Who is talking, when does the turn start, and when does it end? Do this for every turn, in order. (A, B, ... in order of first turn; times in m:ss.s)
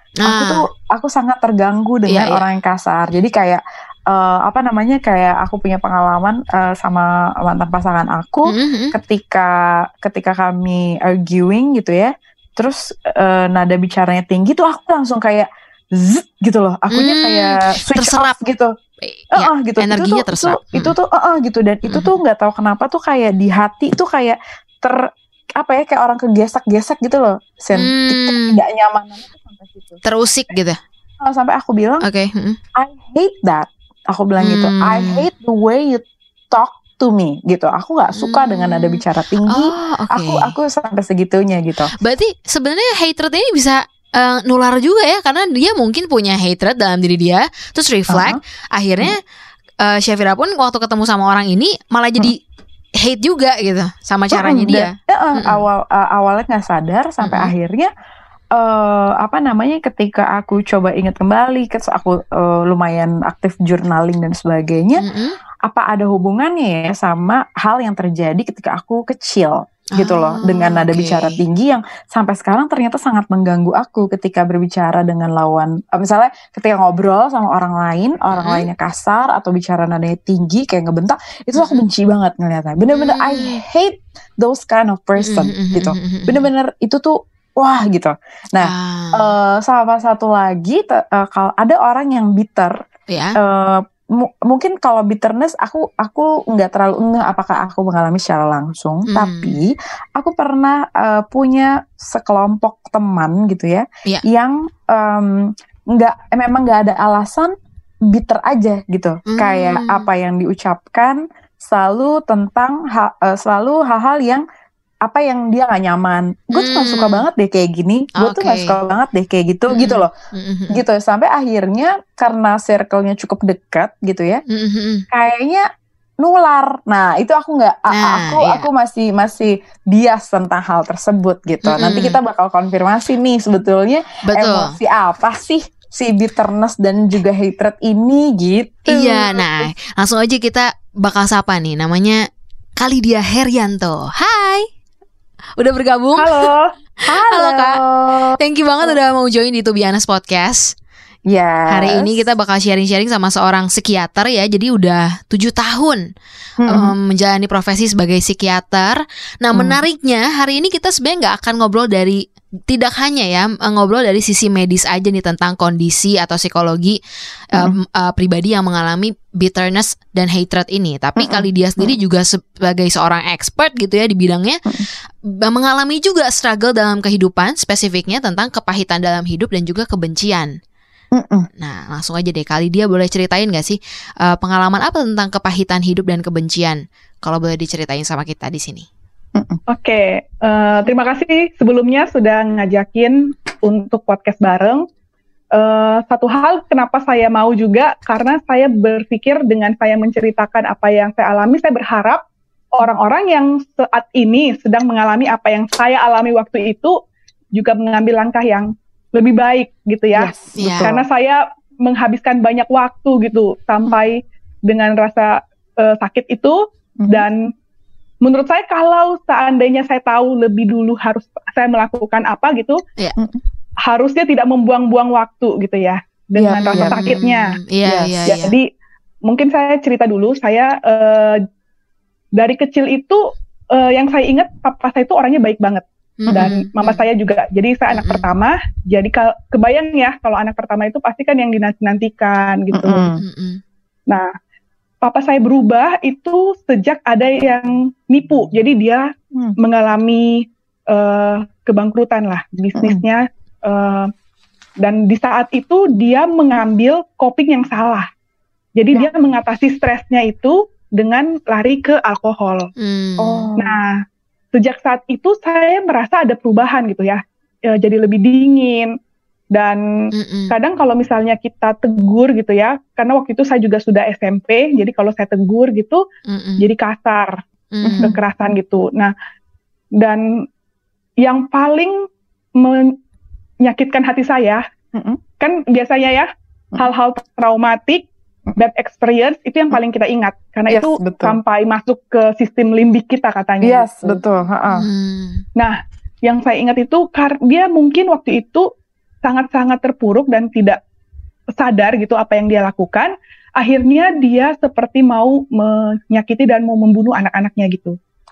0:00.2-0:00.6 A
0:00.2-0:18.7 B
0:02.1-0:02.4 A
0:08.5-0:09.0 A
0:16.9-0:18.3 A
0:19.0-0:21.0 A
0:19.3-0:25.0 B
0:21.9-0:22.1 A
0:25.6-0:30.0 B
0:27.7-0:28.6 A
0:30.0-0:30.8 A
0:31.2-0:32.1 B
0:32.0-0:32.6 A
0:32.8-0:41.9 B
0:34.4-0:35.3 A
0:38.2-0:40.5 A
0:42.0-0:49.2 A
0:48.1-0:48.4 B
0:49.8-0:52.4 A
0:53.0-0:55.6 A
0:54.3-0:57.9 B
0:57.2-0:57.5 A
0:58.5-1:05.0 B
1:05.0-1:05.4 A
1:05.7-1:32.8 B
1:10.0-1:11.4 A
1:18.3-1:18.7 A
1:21.6-1:21.8 A
1:22.9-1:23.6 A
1:25.2-1:26.5 A
1:28.6-1:29.3 A
1:33.1-1:33.4 A
1:33.4-1:47.5 B
1:39.1-1:39.6 A
1:48.1-1:54.4 B
1:49.3-1:50.1 A
1:55.0-2:00.1 B
1:56.5-1:57.3 A
1:58.2-1:58.8 A
1:59.7-2:00.8 A
2:00.7-2:04.4 B
2:04.5-2:05.0 A
2:05.1-2:05.6 B
2:06.2-2:19.3 B
2:07.9-2:08.7 A
2:11.6-2:12.2 A
2:14.3-2:14.8 A
2:18.9-2:22.2 A
2:22.8-2:24.7 A
2:25.6-2:26.3 A
2:26.2-2:26.7 C
2:27.1-2:29.0 B
2:27.2-2:27.8 A
2:28.4-2:30.7 A
2:31.3-2:32.3 B
2:31.7-2:36.0 A
2:36.6-2:36.9 B
2:36.7-2:47.0 A
2:39.5-2:39.8 B
2:47.5-2:54.8 A
2:51.2-2:52.0 B
2:55.4-3:00.5 A
3:01.1-3:01.5 B
3:01.6-3:08.9 A
3:09.7-3:14.8 C
3:15.6-3:22.2 C
3:22.8-3:27.0 C
3:27.6-3:37.5 C
3:30.2-3:31.1 B
3:30.6-3:30.9 A
3:37.0-3:37.3 B
3:38.2-3:42.8 C
3:43.8-3:47.5 C
3:46.4-3:47.2 B
3:46.7-3:48.6 A
3:47.8-3:48.3 B
3:48.3-3:48.7 C
3:49.3-3:51.4 C
3:52.4-3:53.2 C
3:53.7-4:03.1 C
3:56.2-3:57.0 A
3:57.9-3:58.3 A
4:02.7-4:03.2 B
4:03.2-4:03.6 A
4:05.0-4:14.1 C
4:14.8-4:18.1 C
4:18.8-4:22.7 C
4:22.8-4:23.5 A
4:23.2-4:23.8 B
4:23.6-4:24.0 C
4:24.5-4:29.0 C
4:29.5-4:29.8 C
4:30.1-4:30.5 A
4:30.5-4:36.0 C
4:36.3-4:36.7 A
4:36.6-4:37.4 C
4:37.7-4:38.1 A
4:37.8-4:38.2 B
4:38.0-4:39.1 C
4:40.0-4:40.3 C
4:41.2-4:42.0 C
4:42.6-4:43.0 C
4:43.6-4:44.6 C
4:44.9-4:45.2 B
4:45.4-4:54.2 C
4:50.7-4:51.4 B
4:53.6-4:54.9 B
4:54.7-4:55.4 A
4:55.6-4:58.7 C
4:59.2-5:00.8 C
5:01.6-5:08.0 C